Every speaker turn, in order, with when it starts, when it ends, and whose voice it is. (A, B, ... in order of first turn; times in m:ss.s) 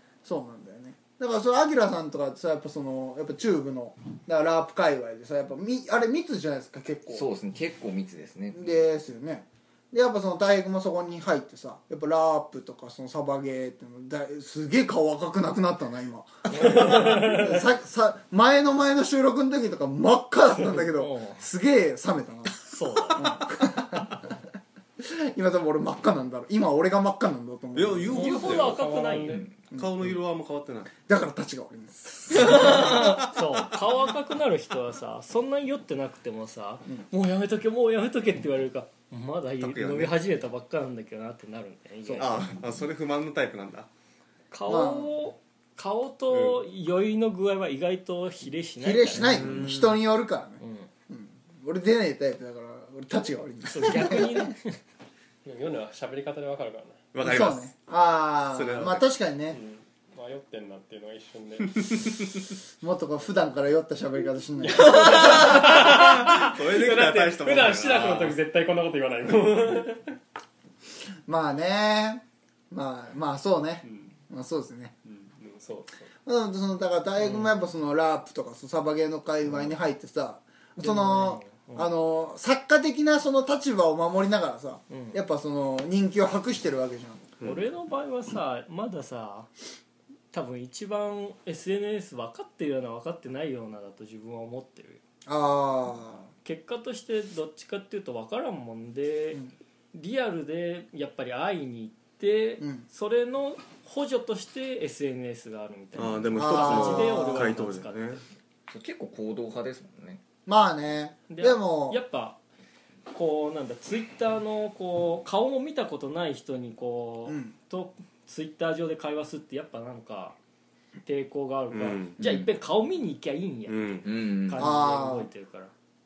0:00.2-0:07.3 A
0:07.1-0:08.8 B
0:08.5-0:22.6 A
0:16.8-0:17.5 C
0:16.9-0:17.2 D
0:20.6-0:21.4 C
0:22.6-0:23.4 C
0:23.1-0:24.4 A
0:25.0-0:28.3 A
0:27.7-0:28.9 E
0:28.1-0:29.5 C
0:28.1-0:29.4 D
0:29.3-0:29.6 B
0:29.7-0:30.9 E
0:31.0-0:32.9 A
0:32.3-0:42.5 C
0:32.4-0:33.4 E
0:39.6-0:40.1 E
0:42.2-0:43.9 E
0:44.5-0:49.5 C
0:44.7-0:45.1 A
0:46.3-0:46.6 E
0:48.8-0:54.5 A
0:49.2-0:49.8 E
0:50.6-0:50.9 C
0:53.7-0:54.7 C
0:55.4-0:57.0 D
0:57.1-0:57.7 E
0:57.2-0:59.6 A
0:58.5-0:59.0 E
0:59.5-1:02.0 D
1:01.8-1:02.2 E
1:02.8-1:05.7 A
1:04.6-1:10.2 D
1:05.5-1:08.4 E
1:11.2-1:14.9 A
1:13.8-1:14.1 D
1:15.0-1:16.1 D
1:16.2-1:27.3 A
1:17.2-1:17.5 C
1:20.8-1:21.9 C
1:24.9-1:25.2 C
1:27.4-1:27.6 E
1:27.4-1:29.5 C
1:30.3-1:35.0 C
1:35.2-1:36.3 A
1:36.4-1:48.2 C
1:42.6-1:42.8 A
1:46.0-1:48.2 E
1:46.4-1:47.5 A
1:48.7-1:50.2 B
1:50.4-1:52.0 A
1:51.3-1:52.4 C
1:53.1-2:00.4 C
1:57.3-1:57.5 A
2:01.0-2:05.7 C
2:01.7-2:02.2 E
2:02.2-2:02.5 B
2:03.7-2:04.1 E
2:04.0-2:04.7 B
2:04.6-2:05.3 A